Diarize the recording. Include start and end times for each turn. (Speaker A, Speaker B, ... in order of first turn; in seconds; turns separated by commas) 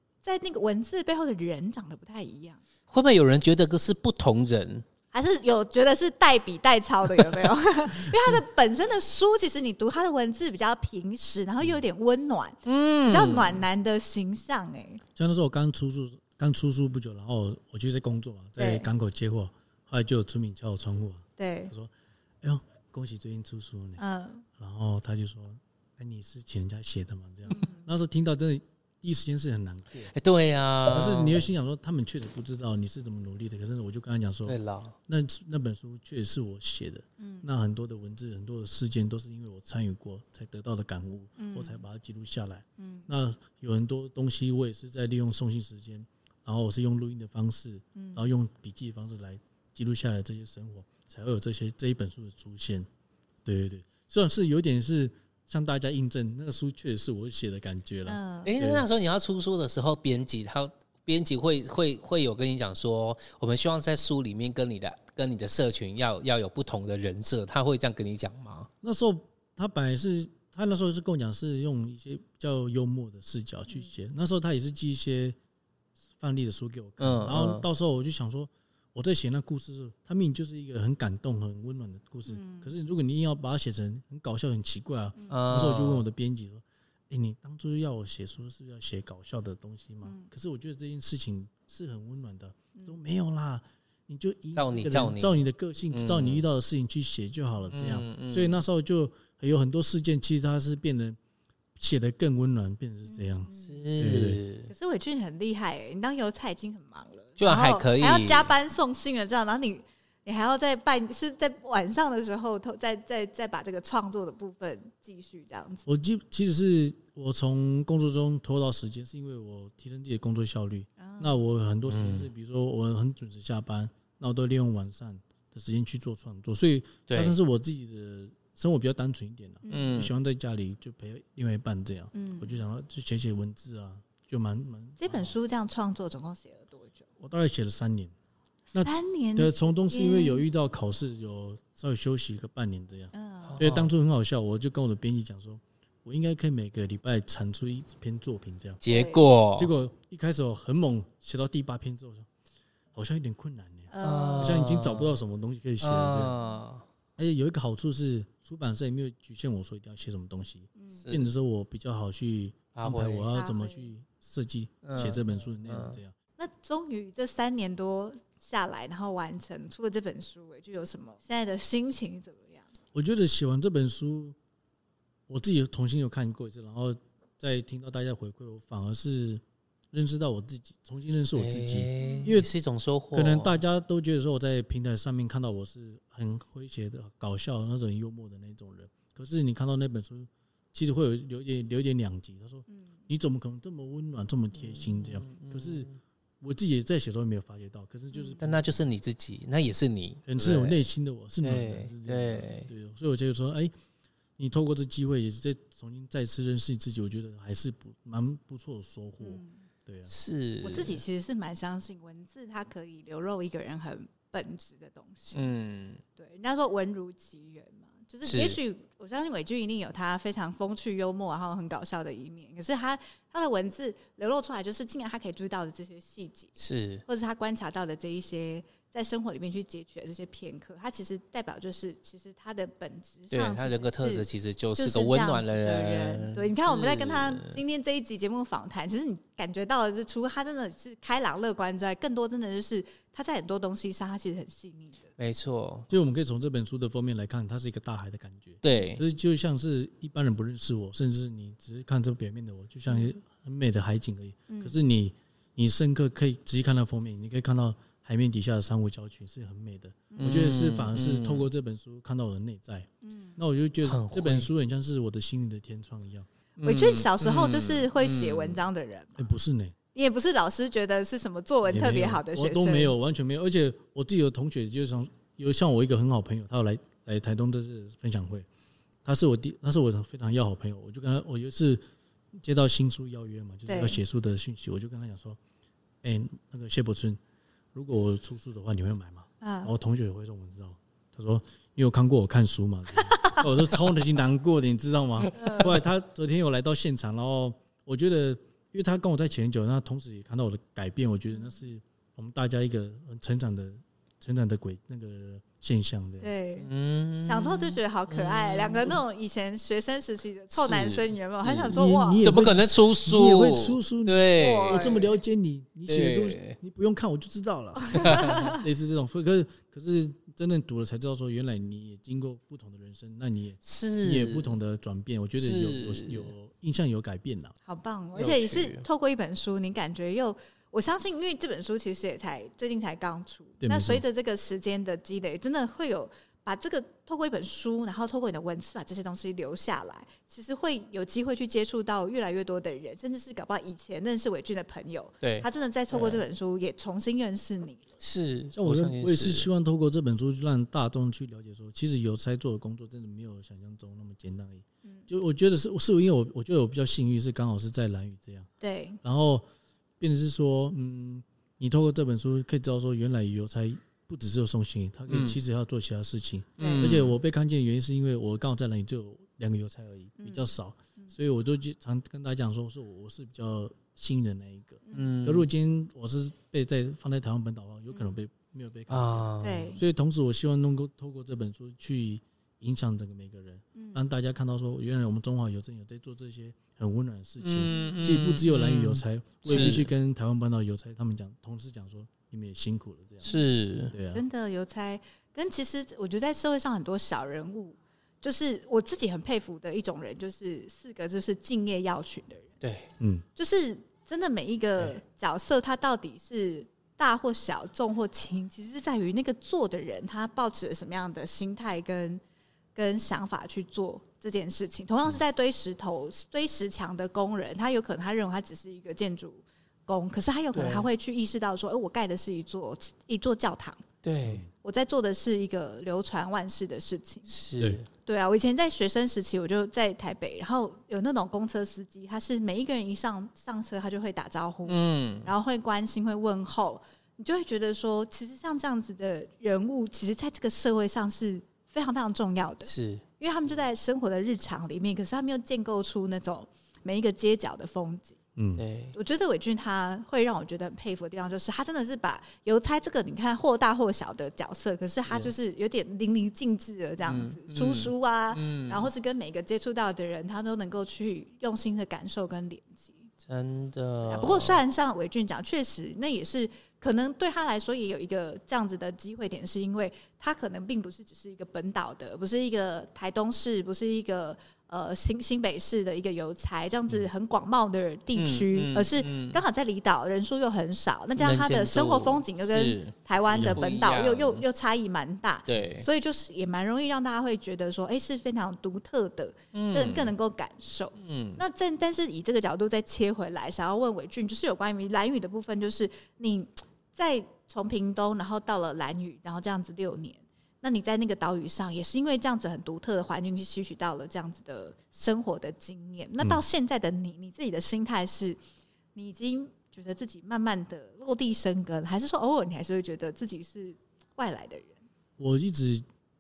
Speaker A: 0.2-2.6, Speaker B: 2.9-4.8, Speaker A: 5.1-15.0, Speaker B: 12.7-13.6, Speaker C: 15.2-21.9, Speaker A: 18.6-18.9, Speaker A: 21.4-21.7, Speaker C: 22.4-24.0, Speaker A: 24.0-24.4, Speaker C: 24.5-30.1, Speaker A: 27.5-27.9, Speaker B: 30.1-31.4, Speaker C: 30.9-52.9, Speaker B: 34.5-35.0, Speaker A: 37.2-37.5, Speaker A: 41.4-41.8, Speaker A: 42.8-43.1, Speaker A: 47.9-48.2, Speaker C: 53.4-58.9, Speaker A: 58.0-58.5, Speaker B: 58.4-68.7, Speaker C: 68.8-75.3, Speaker C: 76.2-101.2, Speaker B: 77.0-77.6, Speaker A: 82.2-82.7, Speaker B: 85.3-86.0, Speaker A: 90.0-90.3, Speaker B: 94.5-96.4, Speaker B: 97.7-98.6, Speaker C: 101.8-104.4, Speaker A: 103.0-103.8, Speaker B: 103.5-104.7, Speaker A: 104.7-115.8, Speaker B: 107.4-108.5, Speaker C: 115.8-135.3, Speaker A: 121.0-121.4, Speaker B: 121.9-122.3, Speaker B: 127.1-127.4, Speaker A: 129.7-130.0, Speaker B: 129.7-130.1, Speaker A: 132.1-132.6, Speaker A: 135.0-137.1, Speaker C: 137.2-138.1, Speaker A: 138.7-140.4, Speaker C: 138.7-148.8, Speaker A: 143.1-143.6, Speaker B: 143.4-143.9, Speaker B: 148.8-149.7, Speaker A: 148.8-149.2, Speaker C: 149.6-152.3, Speaker C: 152.9-156.3, Speaker A: 153.9-154.5, Speaker B: 154.0-155.2, Speaker B: 155.8-156.8, Speaker C: 157.2-166.1, Speaker A: 160.8-161.0, Speaker B: 161.0-161.3, Speaker B: 162.7-163.3, Speaker A: 163.3-163.9, Speaker B: 164.8-166.0, Speaker A: 166.4-172.7, Speaker C: 172.9-174.3, Speaker C: 175.3-182.5, Speaker B: 181.3-183.6, Speaker A: 182.0-182.4, Speaker C: 183.1-195.9, Speaker A: 192.7-192.9, Speaker B: 194.6-196.0, Speaker C: 196.4-198.8, Speaker A: 198.1-198.4, Speaker B: 198.4-200.8, Speaker C: 200.3-203.7, Speaker B: 201.4-202.7, Speaker C: 204.4-210.1, Speaker A: 209.2-209.6, Speaker B: 210.1-211.0, Speaker A: 210.6-215.4, Speaker B: 215.3-216.0, Speaker A: 216.2-226.5, Speaker B: 218.2-218.6, Speaker B: 226.6-227.0, Speaker A: 227.1-245.0, Speaker B: 233.3-237.6, Speaker B: 245.2-245.9, Speaker C: 245.9-266.3, Speaker B: 248.6-249.0, Speaker A: 254.5-254.8, Speaker B: 260.2-261.5, Speaker A: 263.0-263.4, Speaker B: 263.8-264.5, Speaker B: 266.6-268.6, Speaker A: 266.6-269.3, Speaker C: 269.2-269.8, Speaker A: 269.9-272.9, Speaker C: 271.6-278.5, Speaker C: 279.0-285.4, Speaker A: 283.7-284.0, Speaker C: 286.0-287.2, Speaker C: 287.7-306.3, Speaker A: 289.4-289.7, Speaker A: 293.1-293.4, Speaker A: 295.4-295.7, Speaker A: 306.2-306.7, Speaker B: 306.6-309.0, Speaker A: 307.2-312.2, Speaker B: 310.5-314.9, Speaker C: 311.6-327.5, Speaker A: 314.4-315.1, Speaker B: 315.9-316.6, Speaker A: 317.8-318.6, Speaker B: 318.0-318.4, Speaker B: 323.6-324.5, Speaker B: 325.3-326.3, Speaker A: 327.6-347.9, Speaker B: 328.1-328.9, Speaker C: 333.6-334.0, Speaker B: 345.2-346.2, Speaker B: 348.0-349.5, Speaker C: 348.5-358.5, Speaker A: 358.6-359.0, Speaker C: 359.0-359.4, Speaker C: 360.0-393.3, Speaker B: 365.1-365.4, Speaker A: 366.6-366.9, Speaker B: 366.6-367.1, Speaker A: 370.2-371.1, Speaker A: 374.9-375.1, Speaker B: 374.9-375.5, Speaker A: 377.9-378.1, Speaker B: 378.9-379.7, Speaker A: 379.4-379.8, Speaker A: 383.7-384.0, Speaker B: 387.4-389.9, Speaker A: 387.6-388.0, Speaker A: 389.5-389.8, Speaker B: 393.2-393.9, Speaker C: 393.9-394.2, Speaker A: 394.1-402.5, Speaker B: 402.6-402.9, Speaker C: 403.0-403.2, Speaker A: 403.4-412.2, Speaker A: 412.7-423.8, Speaker B: 420.5-420.9, Speaker B: 424.0-424.4, Speaker C: 424.2-424.5, Speaker A: 424.6-427.4, Speaker B: 427.3-427.9, Speaker A: 428.0-448.2, Speaker B: 434.6-435.3, Speaker B: 442.6-443.0, Speaker C: 448.4-448.6, Speaker B: 448.6-448.9, Speaker A: 448.9-463.1, Speaker B: 455.1-455.3, Speaker B: 457.0-458.9, Speaker B: 463.2-464.6, Speaker A: 464.0-508.4, Speaker B: 478.1-479.4, Speaker B: 481.2-484.4, Speaker C: 483.3-483.6, Speaker B: 485.5-485.9, Speaker B: 489.5-490.1, Speaker B: 491.0-491.4, Speaker A: 508.9-514.8, Speaker C: 515.2-515.8